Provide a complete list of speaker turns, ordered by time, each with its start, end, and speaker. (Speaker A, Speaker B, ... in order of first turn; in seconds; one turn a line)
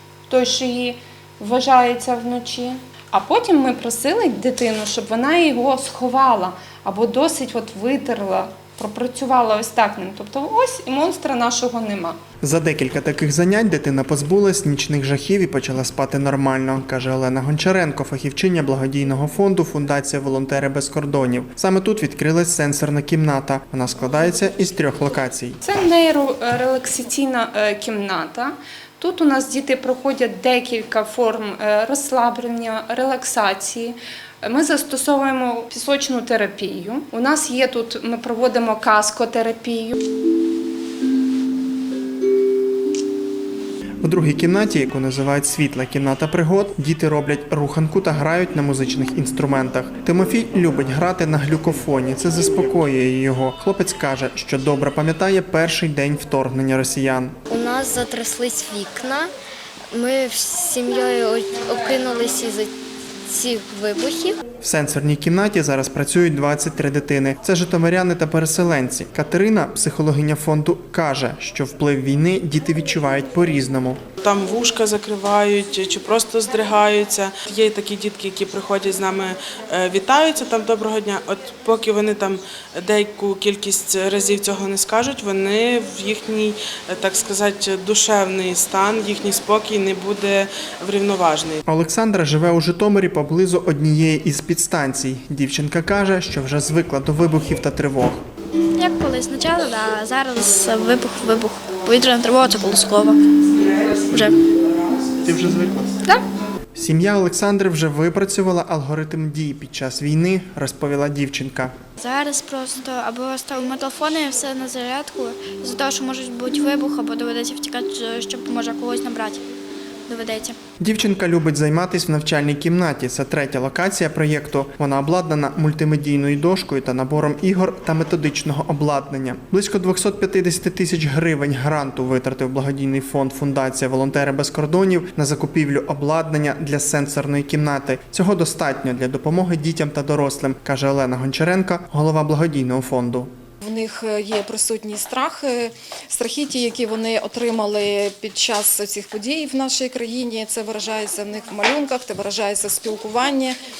Speaker A: 0.3-12.2
Speaker B: 12.4-25.6
Speaker A: 25.6-40.0
Speaker B: 44.0-57.4
Speaker C: 57.5-59.3
Speaker C: 59.9-62.7
Speaker C: 63.2-64.4
Speaker B: 64.6-74.0
Speaker D: 74.2-91.6
Speaker B: 91.7-98.2
Speaker E: 98.8-103.2
Speaker D: 103.5-105.2
Speaker E: 104.1-104.4
Speaker B: 105.2-106.0
Speaker B: 106.7-111.7
Speaker E: 112.0-119.4
Speaker E: 120.1-120.5
Speaker B: 120.8-143.3
Speaker F: 143.6-153.6